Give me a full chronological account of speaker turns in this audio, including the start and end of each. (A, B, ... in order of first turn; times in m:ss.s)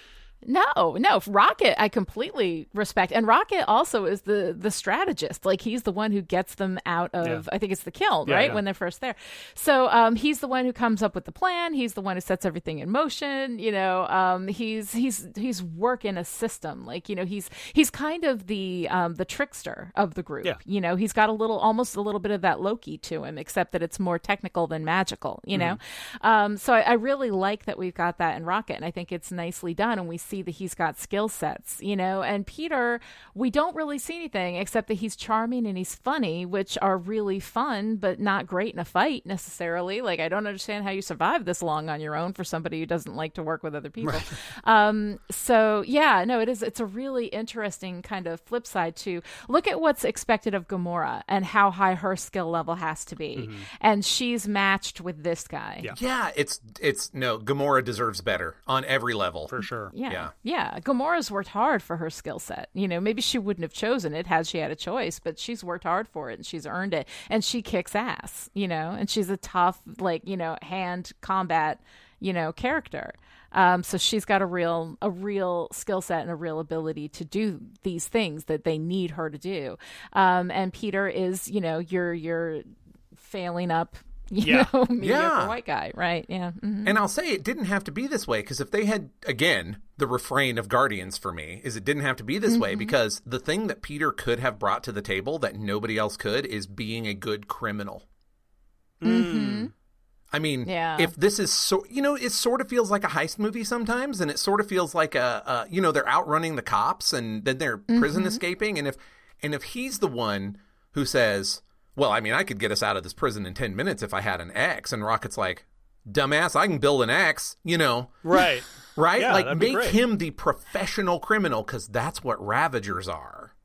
0:00.5-0:55.9 A
0:08.3-0:08.6 B
0:44.0-0:44.3 B
0:53.4-0:53.7 B
0:55.9-0:59.6 C
0:59.5-0:59.9 B
0:59.9-1:22.6 A
1:23.2-1:27.0 A
1:24.4-1:24.7 B
1:25.0-1:25.6 C
1:26.8-1:38.0 C
1:32.5-1:32.9 A
1:39.0-1:39.7 B
1:39.0-1:39.7 A
1:40.3-1:58.2 C
1:40.7-1:41.1 A
1:47.9-1:48.4 A
1:58.2-2:00.0 B
1:59.0-2:03.5 C